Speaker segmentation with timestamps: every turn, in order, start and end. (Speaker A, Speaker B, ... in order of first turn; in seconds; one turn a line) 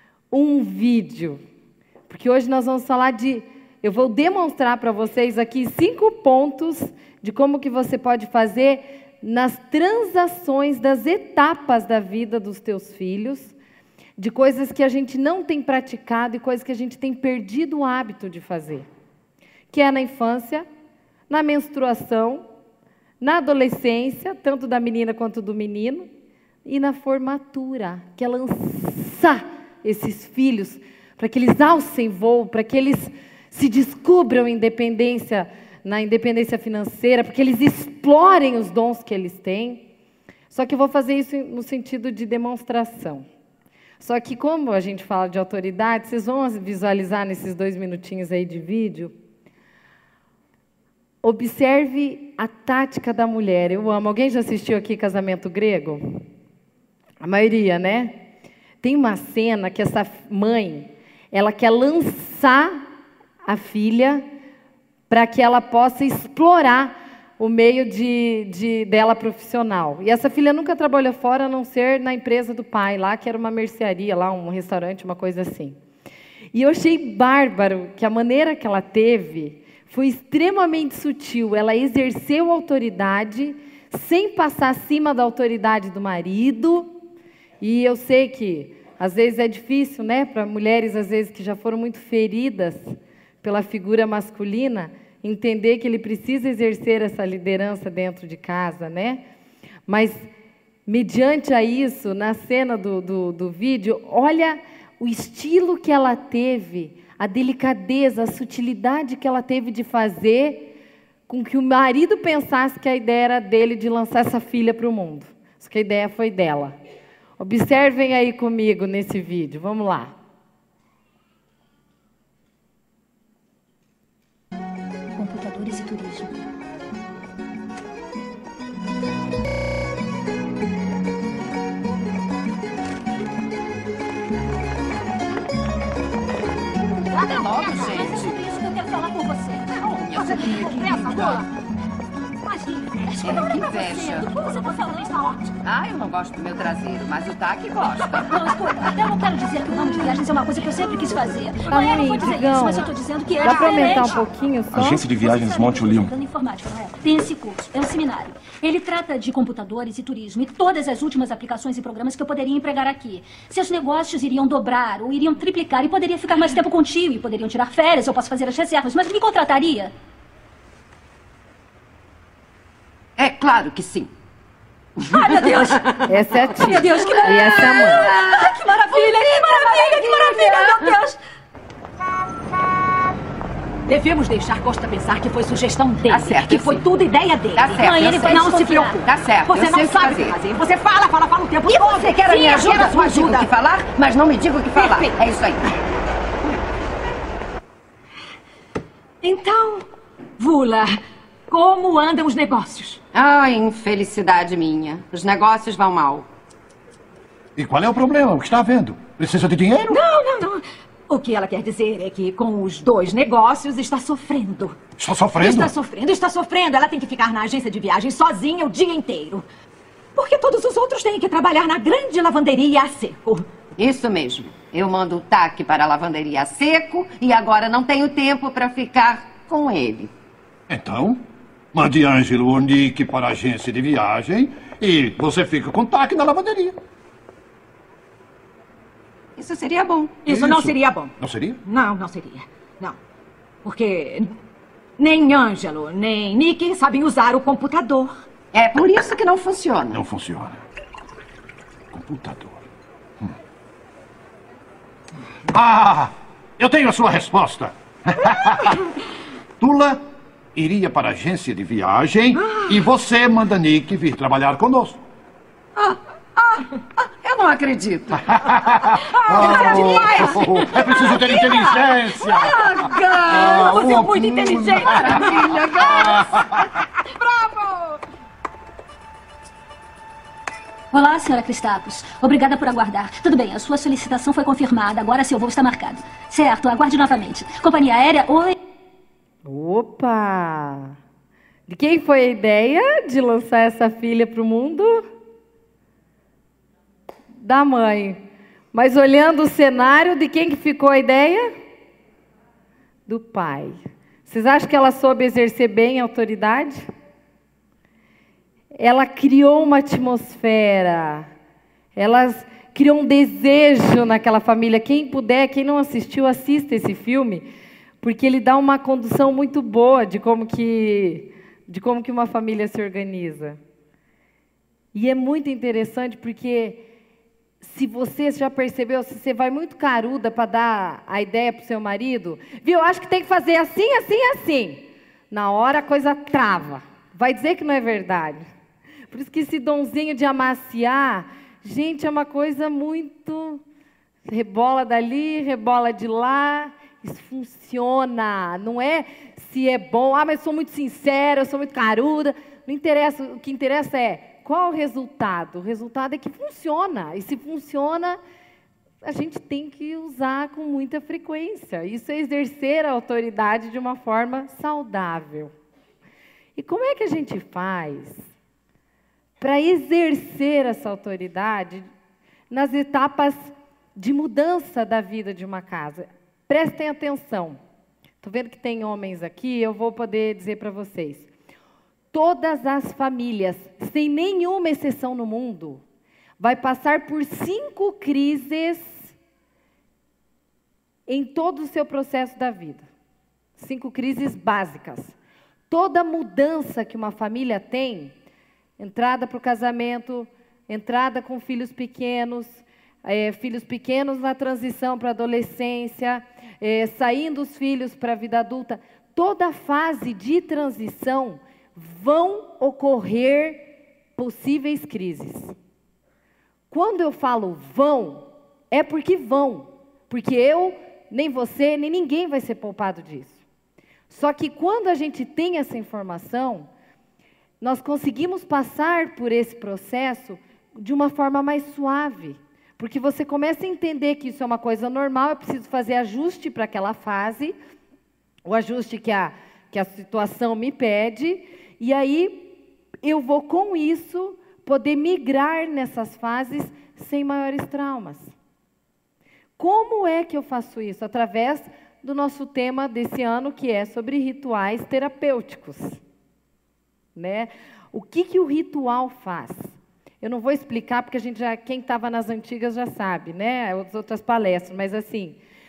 Speaker A: 0.3-1.4
Speaker A: 2.1-13.5
Speaker A: 14.2-18.9
Speaker A: 19.7-20.6
Speaker A: 21.3-22.4
Speaker A: 23.2-26.1
Speaker A: 26.6-39.9
Speaker A: 40.5-43.2
Speaker A: 44.0-49.1
Speaker A: 51.2-56.2
Speaker A: 57.2-58.2
Speaker A: 58.8-62.8
Speaker A: 63.4-64.2
Speaker A: 65.1-75.8
Speaker A: 76.5-86.9
Speaker A: 87.6-99.2
Speaker A: 99.9-100.3
Speaker A: 100.8-110.7
Speaker A: 111.3-116.8
Speaker A: 117.4-120.2
Speaker B: 125.2-126.4
Speaker C: 137.1-138.4
Speaker B: 137.3-139.7
Speaker C: 139.7-141.4
Speaker D: 140.1-141.4
Speaker B: 140.3-140.7
Speaker D: 142.5-145.5
Speaker B: 143.0-143.5
Speaker C: 143.2-144.3
Speaker C: 145.6-148.3
Speaker B: 148.3-154.2
Speaker A: 151.7-152.9
Speaker A: 153.4-155.0
Speaker E: 154.7-156.1
Speaker B: 155.0-169.9
Speaker C: 173.2-174.1
Speaker C: 175.1-175.9
Speaker B: 175.1-175.8
Speaker D: 175.2-175.7
Speaker A: 176.0-178.0
Speaker B: 176.6-180.9
Speaker D: 176.7-181.2
Speaker C: 177.9-178.4
Speaker C: 179.1-180.6
Speaker D: 183.9-193.5
Speaker C: 186.1-186.8
Speaker C: 187.5-190.4
Speaker B: 187.7-189.0
Speaker C: 191.7-195.7
Speaker D: 194.7-195.1
Speaker D: 199.2-199.8
Speaker D: 200.4-203.0
Speaker C: 203.1-206.3
Speaker E: 207.6-210.0
Speaker D: 209.9-214.8
Speaker E: 215.0-215.7
Speaker D: 215.3-219.4
Speaker D: 220.1-223.5
Speaker C: 223.8-230.1
Speaker E: 230.7-231.2
Speaker E: 231.7-236.8
Speaker C: 239.3-240.2
Speaker D: 240.2-241.1
Speaker E: 240.3-241.6
Speaker D: 241.6-243.0
Speaker D: 243.6-244.3
Speaker D: 245.0-248.1
Speaker C: 248.5-250.0
Speaker E: 249.9-250.6
Speaker E: 251.9-252.7
Speaker E: 255.5-258.9
Speaker E: 259.6-260.0
Speaker E: 260.5-265.0
Speaker C: 265.8-266.6
Speaker C: 267.2-274.0
Speaker E: 268.3-272.6
Speaker D: 269.1-271.5
Speaker D: 273.3-275.9
Speaker E: 273.3-276.6
Speaker C: 274.7-276.6
Speaker C: 277.2-277.8
Speaker B: 280.9-288.6
Speaker A: 289.4-290.9
Speaker A: 291.7-295.1
Speaker A: 297.4-298.2
Speaker A: 298.7-301.5
Speaker A: 303.1-306.8
Speaker A: 308.7-311.3
Speaker A: 311.9-317.5
Speaker A: 318.0-323.6
Speaker A: 324.9-326.9
Speaker A: 327.6-338.4
Speaker A: 339.1-343.6
Speaker A: 344.2-358.2
Speaker A: 359.0-365.5
Speaker A: 366.6-368.2
Speaker A: 369.4-371.9
Speaker A: 372.5-377.6
Speaker A: 378.2-381.3
Speaker A: 382.1-385.8
Speaker A: 386.4-389.1
Speaker A: 391.1-392.9
Speaker A: 393.6-395.1
Speaker A: 395.7-398.1
Speaker A: 398.8-413.6
Speaker A: 414.2-415.5
Speaker A: 416.7-423.4
Speaker A: 424.1-426.7
Speaker A: 427.6-437.5
Speaker A: 438.4-448.3
Speaker A: 449.6-456.0
Speaker A: 457.1-465.4